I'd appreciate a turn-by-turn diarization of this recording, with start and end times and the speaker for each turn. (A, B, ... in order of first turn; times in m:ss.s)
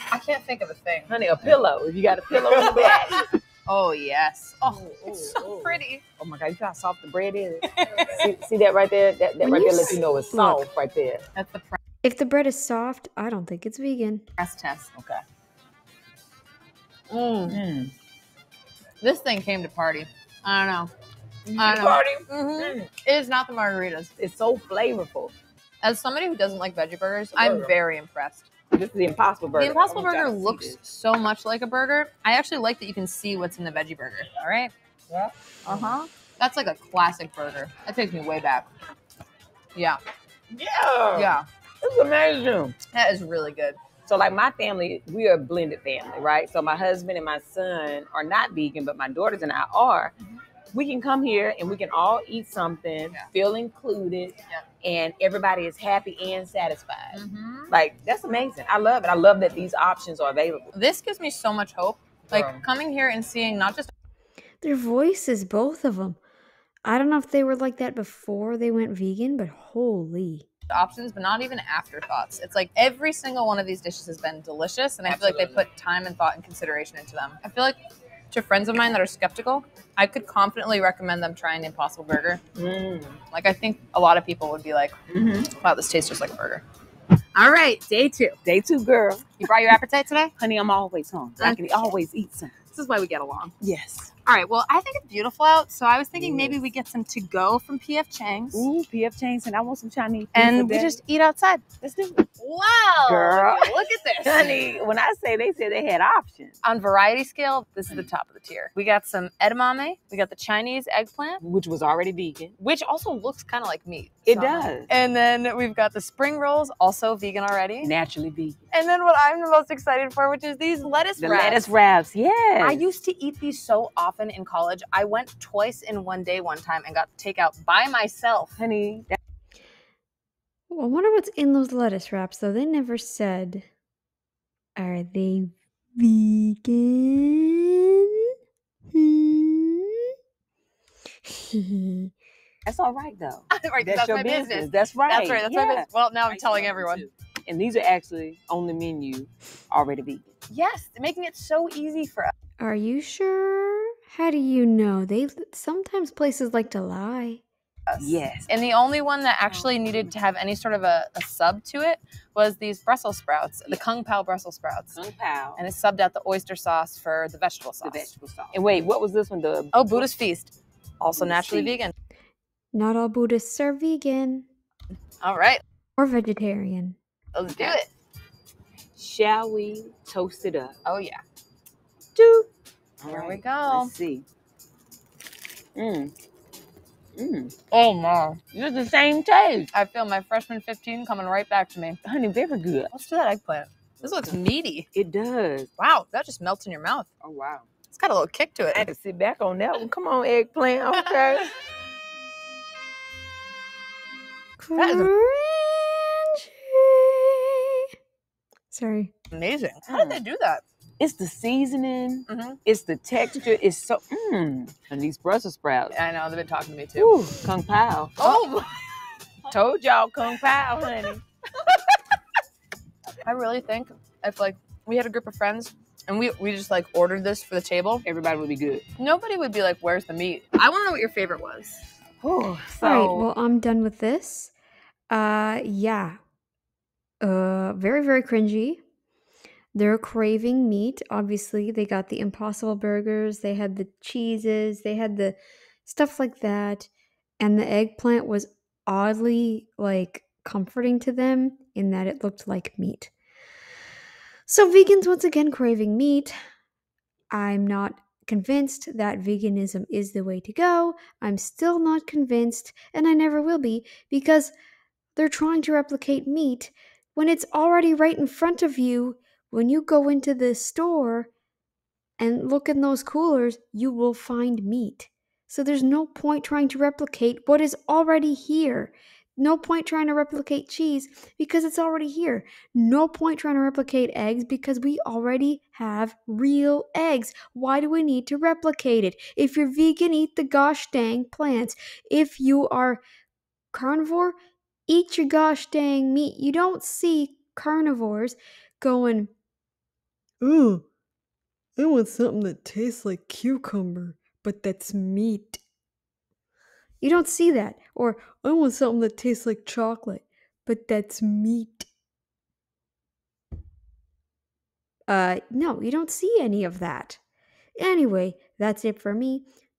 0:00.1-0:01.1 A
0:01.1-0:03.3 B
0:02.6-0:03.1 A
0:03.6-0:06.0 A
0:04.6-0:11.2 B
0:07.7-0:08.1 A
0:09.4-0:10.7 C
0:09.5-0:10.0 A
0:11.3-0:11.8 A
0:12.0-0:14.2 C
0:14.4-0:14.9 A
0:17.1-0:17.6 A
0:17.5-0:17.9 B
0:19.0-0:20.9 A
0:21.5-0:22.8 B
0:21.6-0:24.1 A
0:24.2-0:25.3 B
0:25.8-0:28.5 A
0:27.4-0:27.7 B
0:28.7-0:30.8 B
0:29.5-0:34.7 A
0:35.1-0:35.9 B
0:35.6-0:38.7 A
0:40.5-0:42.8 B
0:41.1-0:41.4 A
0:42.9-0:43.8 A
0:44.0-0:50.1 B
0:50.7-1:00.7 B
0:57.1-0:57.7 A
1:00.7-1:03.9 A
1:02.3-1:02.6 B
1:04.6-1:06.2 C
1:06.8-1:10.4 C
1:10.7-1:17.8 A
1:15.0-1:15.6 B
1:18.3-1:22.4 A
1:22.6-1:23.2 B
1:23.3-1:24.9 A
1:25.1-1:25.5 B
1:25.4-1:26.6 A
1:27.3-1:28.4 A
1:28.4-1:29.4 B
1:29.4-1:30.3 A
1:30.4-1:32.6 B
1:31.4-1:31.9 A
1:32.7-1:33.5 A
1:33.6-1:34.1 B
1:34.2-1:38.7 A
1:36.1-1:36.6 B
1:38.5-1:41.0 B
1:40.3-1:41.6 A
1:41.8-1:42.3 B
1:42.4-1:44.7 A
1:43.0-1:46.6 B
1:46.6-1:51.4 A
1:51.4-1:52.5 B
1:52.6-1:57.9 A
1:54.3-1:54.9 B
1:57.8-1:58.6 B
1:58.7-2:01.7 A
2:01.2-2:02.9 B
2:02.6-2:08.6 A
2:08.6-2:09.2 B
2:10.7-2:13.6 C
2:14.8-2:18.3 C
2:18.9-2:20.1 C
2:21.2-2:22.1 C
2:22.6-2:30.2 B
2:23.5-2:27.1 A
2:30.5-2:32.3 A
2:32.6-2:37.4 C
2:37.9-2:45.0 A
2:38.0-2:38.5 B
2:39.4-2:40.1 B
2:44.9-2:45.6 B
2:45.6-2:48.1 A
2:47.8-2:50.1 B
2:49.7-2:51.9 A
2:51.2-2:51.8 B
2:52.7-2:54.5 C
2:55.2-2:55.6 A
2:56.0-2:57.0 C
2:57.3-2:57.9 A
2:59.0-3:00.8 B
3:00.8-3:01.2 A
3:03.0-3:04.2 B
3:03.0-3:03.9 A
3:05.8-3:06.1 B
3:07.2-3:07.6 B
3:07.7-3:08.4 A
3:08.5-3:09.7 B
3:09.7-3:12.0 A
3:12.0-3:12.9 B
3:12.9-3:14.9 A
3:14.0-3:14.3 B
3:14.9-3:15.7 B
3:15.8-3:17.1 A
3:17.2-3:17.7 B
3:17.9-3:18.9 A
3:18.7-3:21.5 B
3:24.6-3:27.8 C
3:24.8-3:25.1 A
3:28.7-3:29.1 C
3:29.3-3:30.6 A
3:29.9-3:30.2 B
3:31.0-3:35.9 B
3:32.3-3:32.6 A
3:35.9-3:37.3 A
3:37.0-3:38.5 B
3:38.2-3:38.7 A
3:39.4-3:41.2 B
3:43.2-3:48.0 A
3:48.0-3:48.8 B
3:49.0-3:51.8 A
3:52.2-3:53.3 B
3:52.8-3:54.5 C
3:55.1-3:56.2 C
3:57.2-3:58.8 C
3:59.7-4:13.1 C
4:14.5-4:16.3 C
4:17.3-4:24.5 C
4:25.2-4:31.3 C
4:32.2-4:53.0 C
4:53.7-4:54.3 C
4:54.9-4:59.3 C
5:00.4-5:00.8 C
5:01.8-5:05.6 C
5:07.0-5:11.9 C
5:15.1-5:17.2 C
5:17.8-5:19.4 C